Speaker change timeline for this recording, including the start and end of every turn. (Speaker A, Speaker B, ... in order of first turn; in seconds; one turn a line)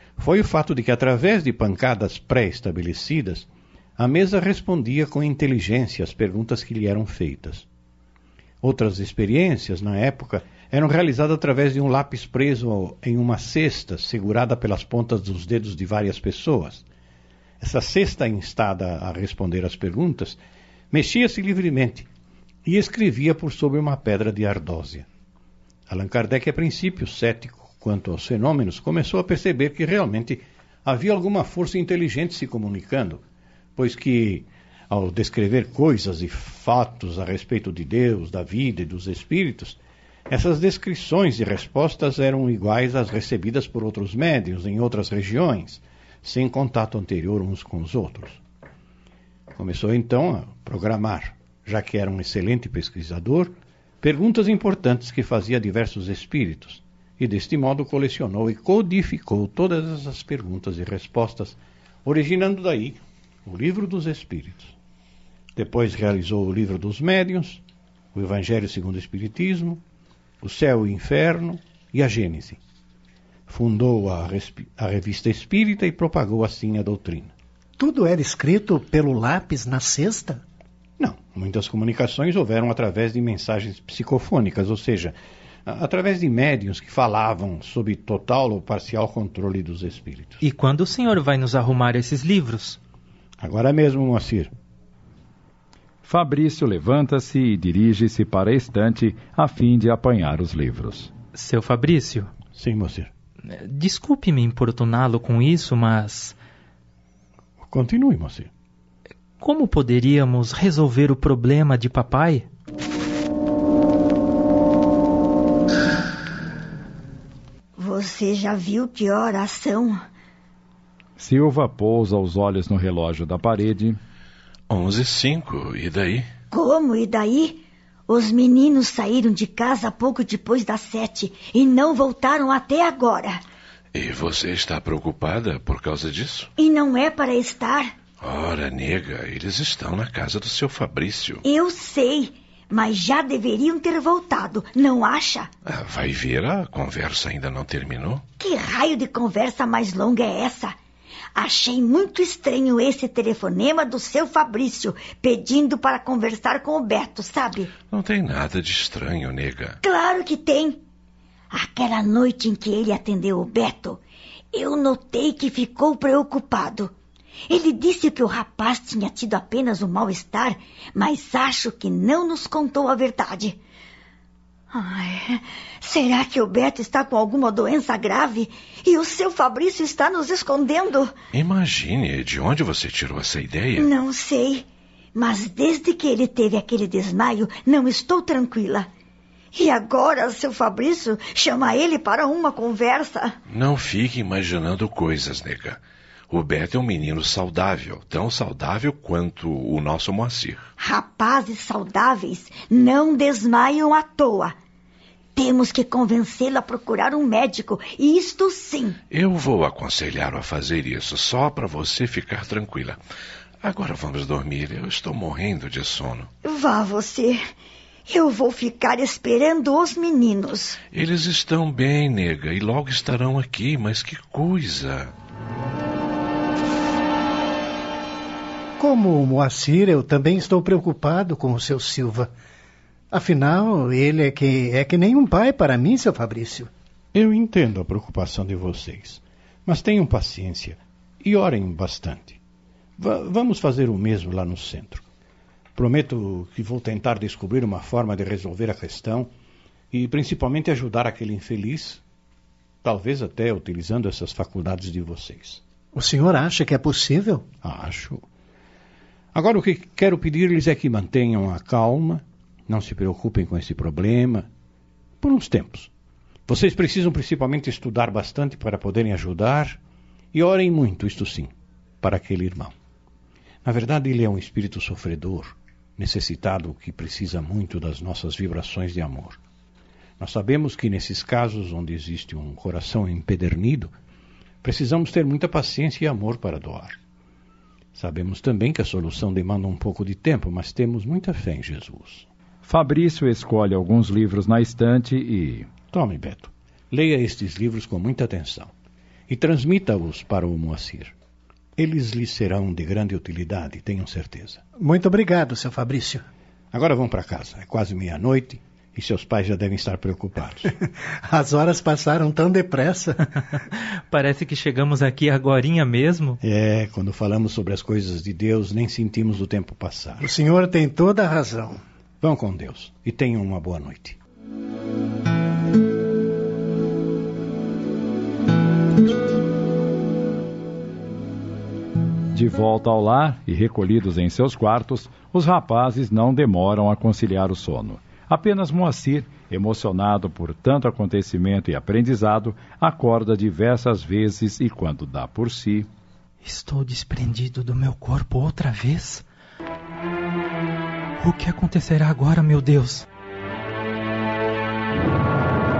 Speaker A: 0.2-7.7
Speaker A: 8.6-16.8
Speaker A: 17.6-20.4
Speaker A: 20.9-22.1
Speaker A: 22.6-25.1
Speaker A: 25.9-33.2
Speaker A: 33.8-48.4
Speaker A: 49.5-64.7
Speaker A: 65.5-67.6
Speaker A: 68.1-69.8
Speaker A: 70.4-72.6
Speaker A: 73.5-77.3
Speaker B: 77.8-80.4
Speaker A: 81.0-90.4
Speaker C: 90.4-92.8
Speaker A: 93.4-94.5
Speaker D: 96.0-101.1
Speaker C: 101.3-102.3
Speaker A: 102.5-103.1
Speaker C: 103.5-106.4
Speaker A: 107.6-108.5
Speaker C: 109.4-112.5
Speaker E: 117.8-120.0
Speaker D: 121.2-124.0
Speaker F: 124.7-126.3
Speaker E: 126.5-133.4
Speaker F: 133.9-136.5
Speaker E: 136.6-137.9
Speaker F: 138.2-141.4
Speaker E: 141.4-145.5
Speaker F: 145.6-148.2
Speaker E: 148.4-150.7
Speaker E: 151.3-157.7
Speaker F: 157.9-159.8
Speaker E: 159.8-160.8
Speaker E: 161.5-164.0
Speaker E: 164.5-166.9
Speaker E: 167.5-173.6
Speaker E: 174.7-181.1
Speaker F: 181.3-183.9
Speaker E: 183.7-188.9
Speaker E: 189.5-193.3
Speaker F: 193.5-200.7
Speaker E: 200.8-204.5
Speaker E: 205.3-209.0
Speaker F: 209.1-213.0
Speaker F: 213.6-216.3
Speaker E: 216.4-217.4
Speaker E: 218.1-220.8
Speaker F: 220.9-225.1
Speaker B: 228.8-232.3
Speaker B: 233.1-236.7
Speaker A: 237.1-242.4
Speaker A: 243.0-245.0
Speaker A: 245.7-249.3
Speaker A: 249.9-252.0
Speaker A: 252.8-255.6
Speaker B: 255.9-257.4
Speaker A: 257.6-258.2
Speaker A: 259.3-264.5
Speaker A: 265.2-265.9
Speaker A: 266.5-269.8
Speaker A: 270.3-272.7
Speaker A: 273.6-279.4
Speaker A: 280.2-283.9
Speaker A: 284.6-287.0
Speaker A: 287.9-292.3
Speaker D: 292.6-295.7
Speaker A: 295.9-298.7
Speaker A: 299.3-301.1
Speaker A: 301.8-304.6
Speaker B: 304.8-306.2
Speaker A: 306.7-310.7
Speaker B: 311.2-313.2
Speaker C: 314.1-316.4
Speaker A: 316.4-320.3
Speaker B: 320.2-321.8
Speaker A: 322.2-324.2
Speaker D: 332.3-345.9
Speaker C: 346.4-349.2
Speaker C: 351.2-353.1